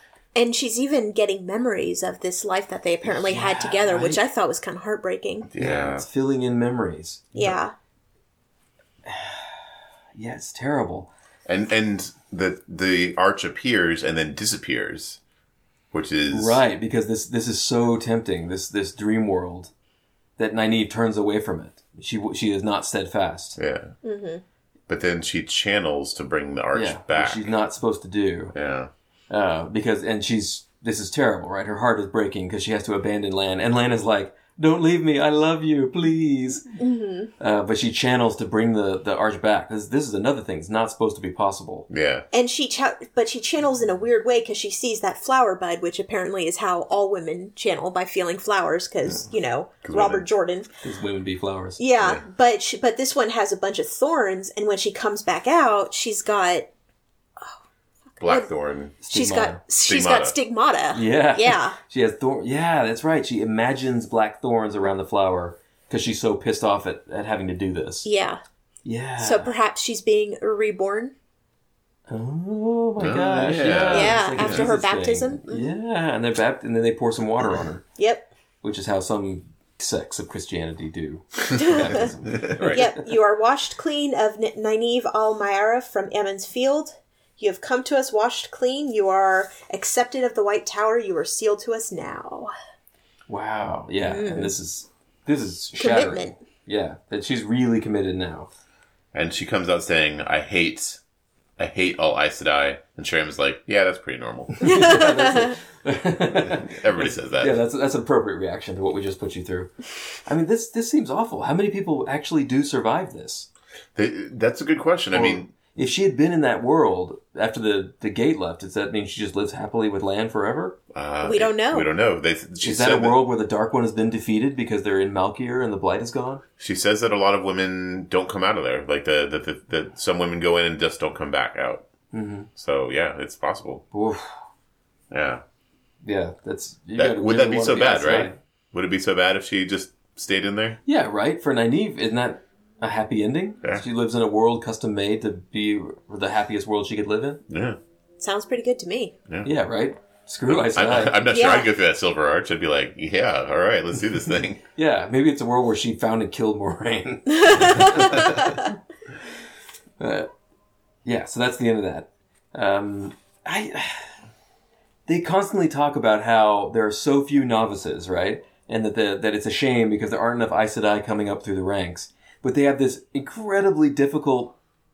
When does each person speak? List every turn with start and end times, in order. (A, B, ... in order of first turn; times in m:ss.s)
0:00.4-0:05.5 A
0:03.0-0:04.2 B
0:05.5-0:06.0 C
0:05.6-0:07.6 B
0:07.4-0:07.7 A
0:09.1-0:09.5 B
0:10.2-0:11.1 B
0:11.5-0:15.2 C
0:15.9-0:16.6 C
0:16.3-0:19.7 B
0:20.4-0:23.6 B
0:23.6-0:23.9 C
0:24.0-0:24.4 A
0:24.9-0:27.5 C
0:26.7-0:28.6 B
0:28.5-0:28.9 C
0:29.3-0:36.7 B
0:36.8-0:37.3 A
0:37.4-0:41.9 B
0:41.9-0:42.3 C
0:42.3-0:50.7 A
0:49.8-0:50.3 C
0:50.8-0:51.8 B
0:51.8-0:56.7 A
0:58.1-0:58.5 A
0:58.2-0:59.0 C
0:59.0-1:01.8 A
0:59.0-0:59.6 B
0:59.9-1:00.4 C
1:00.9-1:08.1 B
1:08.0-1:08.4 A
1:08.8-1:09.5 B
1:09.2-1:11.1 A
1:12.1-1:17.8 B
1:13.0-1:14.7 C
1:13.9-1:15.8 A
1:18.0-1:18.3 A
1:18.6-1:23.0 B
1:21.6-1:22.1 A
1:22.3-1:22.9 C
1:22.7-1:32.5 A
1:33.3-1:38.5 B
1:34.0-1:34.5 A
1:35.8-1:36.4 A
1:39.1-1:41.0 C
1:41.6-1:44.7 C
1:44.5-1:49.7 B
1:44.6-1:45.6 A
1:46.3-1:47.6 C
1:50.3-1:53.5 B
1:54.0-1:55.5 C
1:55.1-2:00.8 B
2:00.9-2:03.2 C
2:01.2-2:01.9 A
2:02.6-2:06.4 B
2:06.6-2:11.9 C
2:12.1-2:12.5 B
2:12.6-2:13.8 C
2:13.9-2:14.3 B
2:15.1-2:15.4 C
2:16.0-2:18.4 B
2:17.0-2:20.8 C
2:20.9-2:27.4 B
2:27.5-2:27.8 C
2:28.2-2:29.2 A
2:29.4-2:31.2 B
2:30.5-2:34.6 C
2:31.3-2:31.7 A
2:34.8-2:38.7 B
2:37.3-2:38.7 A
2:40.0-2:40.3 B
2:41.0-2:44.1 B
2:45.1-2:54.6 B